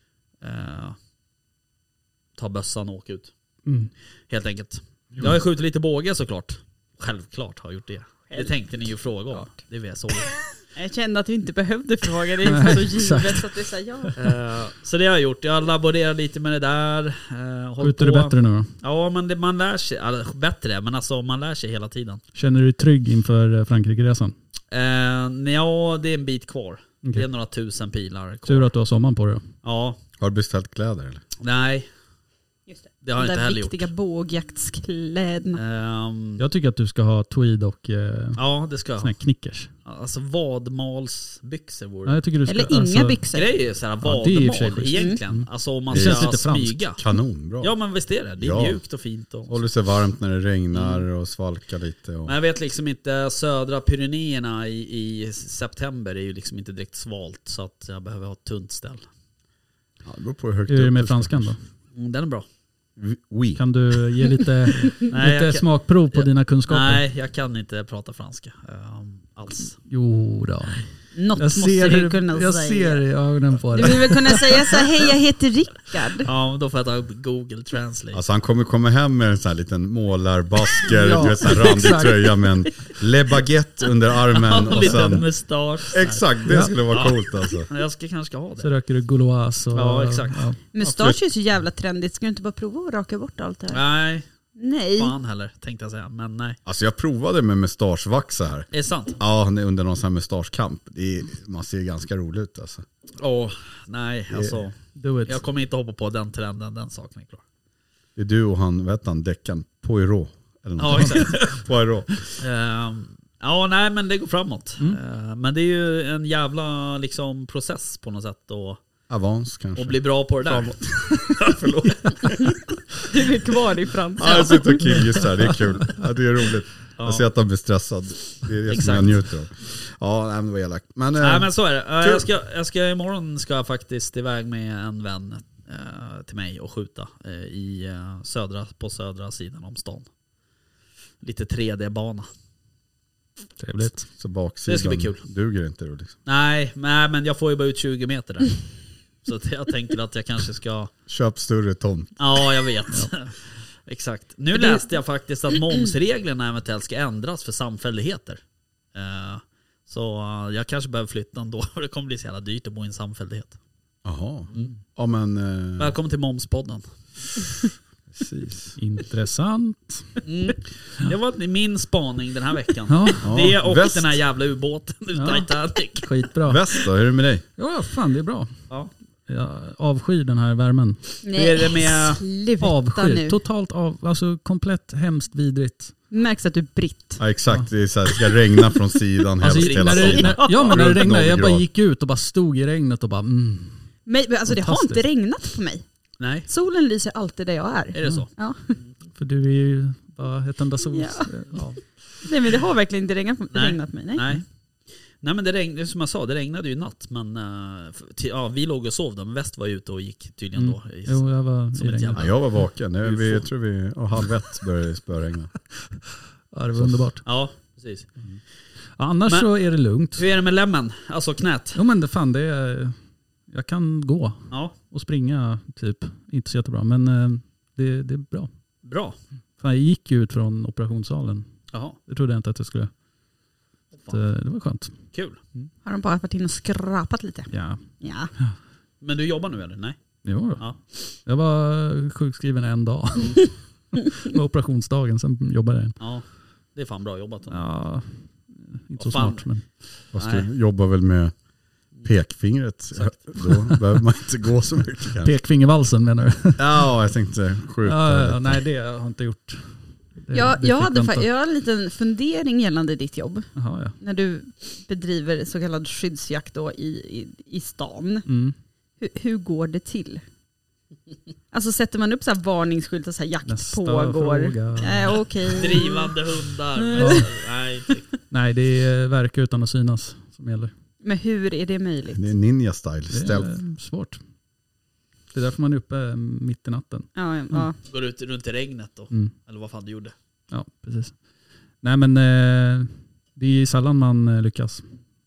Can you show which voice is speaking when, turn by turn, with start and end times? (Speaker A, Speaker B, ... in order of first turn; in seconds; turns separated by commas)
Speaker A: 0.4-1.0, Speaker A: 2.4-3.3, Speaker B: 3.6-3.9, Speaker A: 4.3-10.4, Speaker C: 10.7-14.2, Speaker B: 12.4-13.4, Speaker A: 14.2-22.2, Speaker B: 17.8-18.7, Speaker B: 22.3-24.3, Speaker A: 24.7-28.7, Speaker B: 28.4-29.4, Speaker A: 29.6-30.0, Speaker D: 30.2-31.2, Speaker A: 31.4-31.9, Speaker C: 32.7-35.6, Speaker A: 33.0-33.9, Speaker A: 35.5-36.4, Speaker B: 36.4-38.4, Speaker A: 38.4-39.1, Speaker B: 39.0-39.7, Speaker A: 39.8-42.2, Speaker B: 42.0-43.2, Speaker C: 42.5-43.5, Speaker A: 43.3-47.0, Speaker B: 44.0-46.8, Speaker C: 44.9-45.2, Speaker D: 45.9-46.4, Speaker D: 47.0-47.7, Speaker A: 47.6-49.6, Speaker D: 48.4-48.8, Speaker D: 49.5-52.3, Speaker A: 50.7-51.0, Speaker A: 52.2-59.0, Speaker D: 60.0-61.6, Speaker B: 60.7-61.6, Speaker A: 61.9-62.4, Speaker D: 63.0-63.6, Speaker B: 63.5-67.0, Speaker A: 65.0-69.8, Speaker B: 69.8-74.8, Speaker C: 71.1-73.0, Speaker C: 73.7-76.3, Speaker A: 76.2-78.2, Speaker D: 78.1-85.3, Speaker B: 80.8-82.4, Speaker A: 84.3-88.7, Speaker D: 85.9-87.7, Speaker B: 86.5-86.8, Speaker B: 88.6-90.6, Speaker A: 89.7-90.5, Speaker C: 90.7-93.8, Speaker D: 90.8-91.2, Speaker A: 93.7-94.2, Speaker C: 94.6-95.1, Speaker A: 95.0-96.6, Speaker D: 96.7-102.8, Speaker A: 98.7-99.2, Speaker A: 103.2-107.4, Speaker D: 104.3-104.6, Speaker B: 105.0-105.4, Speaker D: 108.2-112.3, Speaker A: 110.8-111.6, Speaker A: 112.4-118.8, Speaker D: 119.1-122.6, Speaker A: 119.8-122.3, Speaker C: 123.1-125.1, Speaker D: 124.2-132.3, Speaker A: 127.0-127.2, Speaker A: 128.7-129.2, Speaker A: 131.2-140.1, Speaker A: 141.2-142.3, Speaker B: 143.6-144.1, Speaker D: 144.1-146.2, Speaker A: 144.7-145.2, Speaker A: 146.2-148.6, Speaker A: 149.2-150.9, Speaker D: 151.1-152.2, Speaker A: 152.2-158.4, Speaker A: 158.9-163.6, Speaker D: 164.0-165.9, Speaker A: 165.8-167.4, Speaker D: 168.1-168.8, Speaker B: 168.8-170.2, Speaker A: 170.2-176.2, Speaker B: 172.9-173.3, Speaker D: 173.2-174.2, Speaker B: 175.1-176.6, Speaker D: 176.4-177.4, Speaker B: 177.6-178.6, Speaker B: 179.3-181.0, Speaker C: 181.2-183.4, Speaker A: 181.3-182.2, Speaker B: 182.6-185.9, Speaker C: 186.1-187.2, Speaker D: 187.2-191.7, Speaker A: 189.4-190.6, Speaker B: 189.4-193.8, Speaker C: 194.1-195.8, Speaker B: 194.5-195.0, Speaker A: 196.2-196.5, Speaker C: 196.4-198.8, Speaker A: 197.9-198.9, Speaker B: 199.1-202.0, Speaker C: 200.9-201.6, Speaker C: 202.2-204.3, Speaker A: 203.5-204.4, Speaker A: 205.2-213.4, Speaker B: 210.6-212.6, Speaker D: 212.1-215.5, Speaker B: 216.5-217.2, Speaker D: 216.7-217.0, Speaker A: 217.2-218.1, Speaker B: 219.0-220.2, Speaker A: 220.1-221.8, Speaker B: 221.7-222.9, Speaker B: 223.5-228.5, Speaker A: 224.5-224.8, Speaker A: 228.8-229.2, Speaker B: 229.6-231.5, Speaker A: 231.7-232.0, Speaker B: 232.0-232.9, Speaker A: 233.9-234.2, Speaker B: 234.1-234.9, Speaker A: 235.1-235.4, Speaker C: 235.8-238.3, Speaker B: 237.5-237.8, Speaker A: 239.0-240.0, Speaker B: 240.2-246.0, Speaker A: 240.5-240.8, Speaker A: 246.0-247.6, Speaker B: 247.5-249.7, Speaker A: 249.0-250.5, Speaker D: 250.1-251.3, Speaker D: 252.0-255.3, Speaker B: 253.4-253.8, Speaker B: 255.2-256.9, Speaker D: 256.6-258.6, Speaker B: 257.8-261.3, Speaker C: 260.3-268.3, Speaker B: 263.5-263.9, Speaker B: 268.2-268.6, Speaker C: 269.0-270.2, Speaker C: 271.5-277.4, Speaker B: 273.4-275.8, Speaker A: 275.5-278.1, Speaker B: 277.0-277.2, Speaker B: 278.3-280.7, Speaker C: 281.0-282.3, Speaker D: 282.1-283.6, Speaker B: 283.1-284.2, Speaker B: 285.3-287.7, Speaker C: 287.1-287.8, Speaker A: 287.8-290.1, Speaker B: 290.5-291.2, Speaker B: 291.8-294.9